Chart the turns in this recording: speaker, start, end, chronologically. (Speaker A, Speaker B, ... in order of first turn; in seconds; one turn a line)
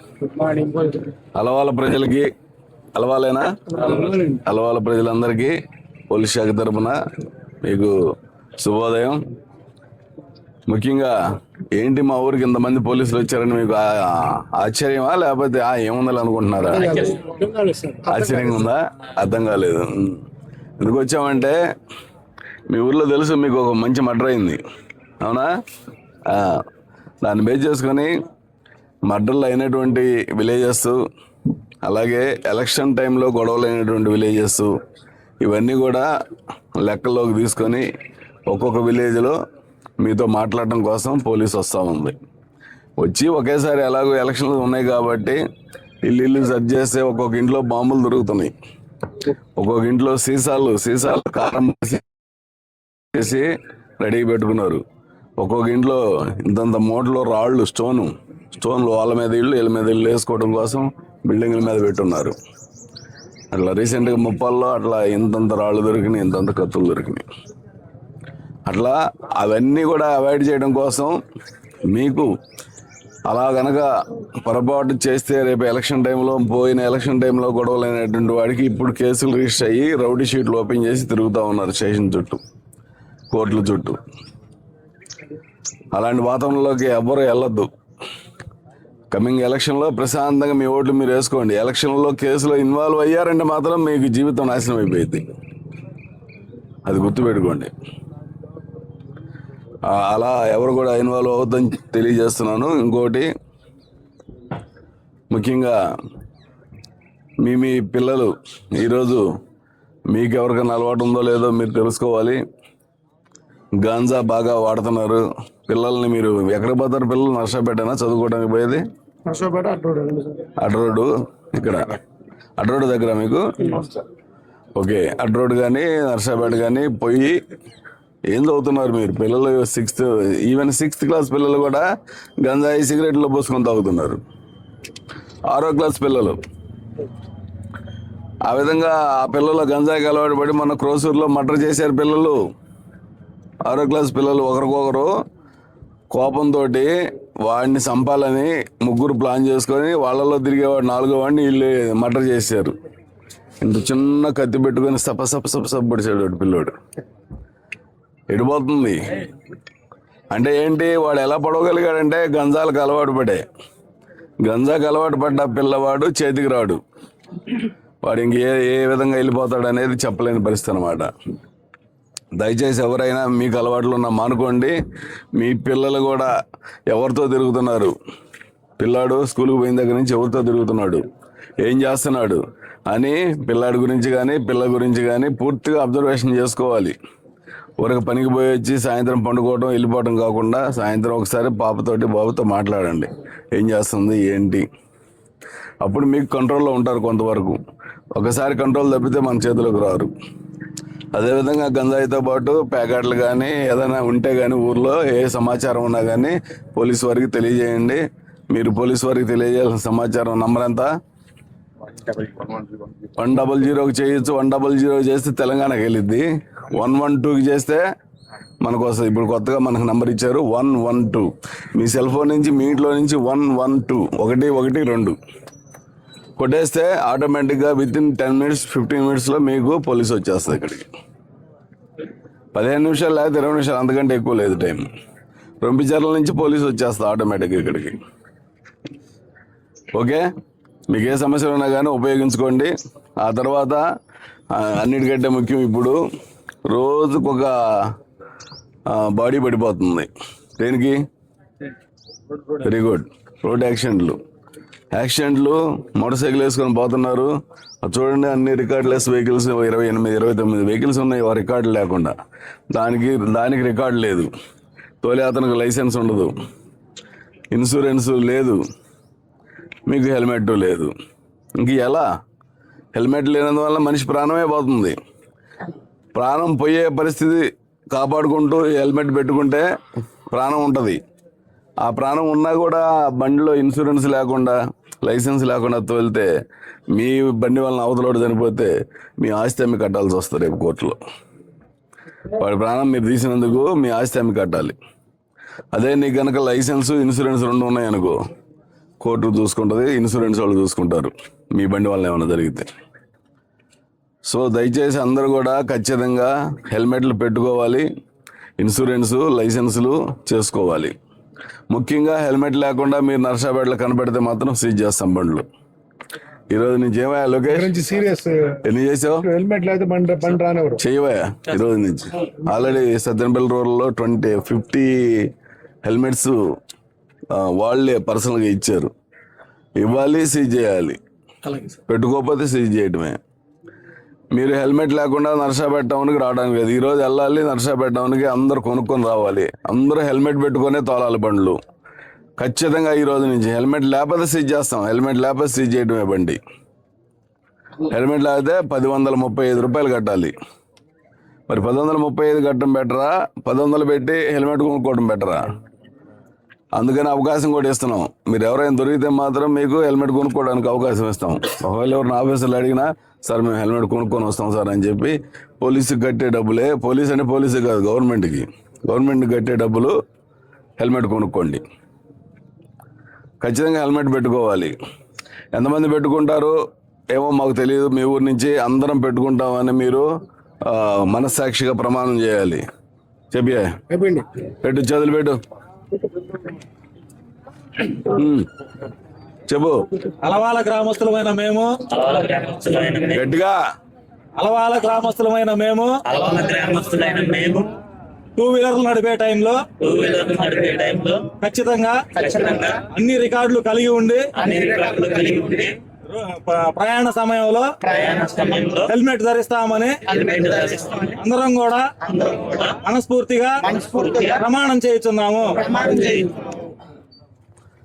Speaker A: 0.3-1.0
Speaker B: 1.3-2.3
Speaker B: 2.9-5.5
Speaker B: 6.1-7.0
Speaker B: 7.6-7.9
Speaker B: 8.6-9.2
Speaker B: 10.7-11.2
Speaker B: 11.7-17.2
Speaker A: 16.8-18.4
Speaker B: 18.1-20.2
Speaker B: 20.8-21.6
Speaker B: 22.7-24.6
Speaker B: 25.2-25.5
Speaker B: 26.2-26.6
Speaker B: 27.2-28.1
Speaker B: 29.1-31.0
Speaker B: 31.8-34.7
Speaker B: 35.4-36.1
Speaker B: 36.8-37.9
Speaker B: 38.5-39.4
Speaker B: 40.0-42.2
Speaker B: 43.0-45.4
Speaker B: 46.0-48.5
Speaker B: 49.6-52.0
Speaker B: 53.1-53.5
Speaker B: 54.0-54.8
Speaker B: 55.4-62.4
Speaker B: 63.5-67.2
Speaker B: 68.7-71.2
Speaker B: 71.9-72.3
Speaker B: 73.3-82.4
Speaker B: 83.3-84.0
Speaker B: 85.9-87.7
Speaker B: 89.1-95.2
Speaker B: 96.8-97.7
Speaker B: 99.8-103.3
Speaker B: 105.3-105.8
Speaker B: 107.4-109.2
Speaker B: 110.1-112.4
Speaker B: 113.8-118.8
Speaker A: 119.2-120.5
Speaker B: 120.6-122.0
Speaker B: 122.6-124.0
Speaker B: 124.8-127.4
Speaker B: 128.3-131.8
Speaker B: 132.4-134.2
Speaker B: 135.5-136.4
Speaker B: 138.5-142.4
Speaker B: 143.6-145.1
Speaker B: 146.1-152.7
Speaker B: 153.6-156.7
Speaker B: 158.3-159.1
Speaker B: 160.3-163.4
Speaker B: 164.4-166.8
Speaker B: 168.0-171.1
Speaker B: 172.3-174.7
Speaker B: 175.3-176.3
Speaker B: 176.9-177.9
Speaker B: 178.8-181.0
Speaker B: 181.6-186.9
Speaker B: 187.8-194.7
Speaker B: 195.8-197.6
Speaker B: 198.1-200.1
Speaker B: 201.1-210.9
Speaker A: 212.2-212.6
Speaker B: 213.2-217.8
Speaker B: 218.6-225.2
Speaker B: 226.4-230.9
Speaker B: 232.5-234.8
Speaker B: 235.6-237.9
Speaker B: 239.9-240.2
Speaker B: 240.9-243.8
Speaker B: 244.5-246.0
Speaker B: 246.7-247.9
Speaker B: 248.9-251.0
Speaker B: 252.5-254.2
Speaker B: 254.9-257.3
Speaker B: 257.8-262.1
Speaker B: 262.7-264.3
Speaker B: 265.0-266.3
Speaker B: 267.5-268.6
Speaker B: 269.9-270.9
Speaker B: 271.6-272.0
Speaker B: 272.9-274.9
Speaker B: 276.1-279.6
Speaker B: 280.3-281.0
Speaker B: 281.8-286.3
Speaker B: 286.9-291.0
Speaker B: 292.4-294.8
Speaker B: 295.7-298.2
Speaker B: 299.0-302.7
Speaker B: 304.3-307.9
Speaker B: 308.6-310.9
Speaker B: 311.7-315.4
Speaker B: 316.5-317.8
Speaker A: 317.5-318.6
Speaker B: 318.6-319.3
Speaker A: 319.3-320.8
Speaker B: 320.8-325.3
Speaker B: 325.8-326.4
Speaker B: 327.3-328.9
Speaker B: 329.8-331.0
Speaker B: 331.5-333.2
Speaker B: 334.3-341.6
Speaker B: 342.4-346.4
Speaker B: 347.8-350.3
Speaker B: 351.5-355.5
Speaker B: 356.8-369.9
Speaker B: 370.8-371.6
Speaker B: 373.4-374.7
Speaker B: 375.5-376.6
Speaker B: 377.1-380.1
Speaker B: 380.6-382.6
Speaker B: 383.3-383.8
Speaker A: 383.9-384.3
Speaker B: 384.6-385.4
Speaker B: 387.9-388.5
Speaker B: 389.5-389.9
Speaker C: 390.2-391.9
Speaker D: 391.9-393.2
Speaker B: 393.1-393.6
Speaker C: 394.4-396.1
Speaker D: 396.0-397.7
Speaker C: 398.4-399.8
Speaker D: 399.8-401.4
Speaker C: 401.3-407.9
Speaker D: 402.2-402.8
Speaker D: 404.4-405.7
Speaker D: 407.8-408.9
Speaker C: 408.7-415.9
Speaker D: 410.1-411.1
Speaker D: 415.8-416.4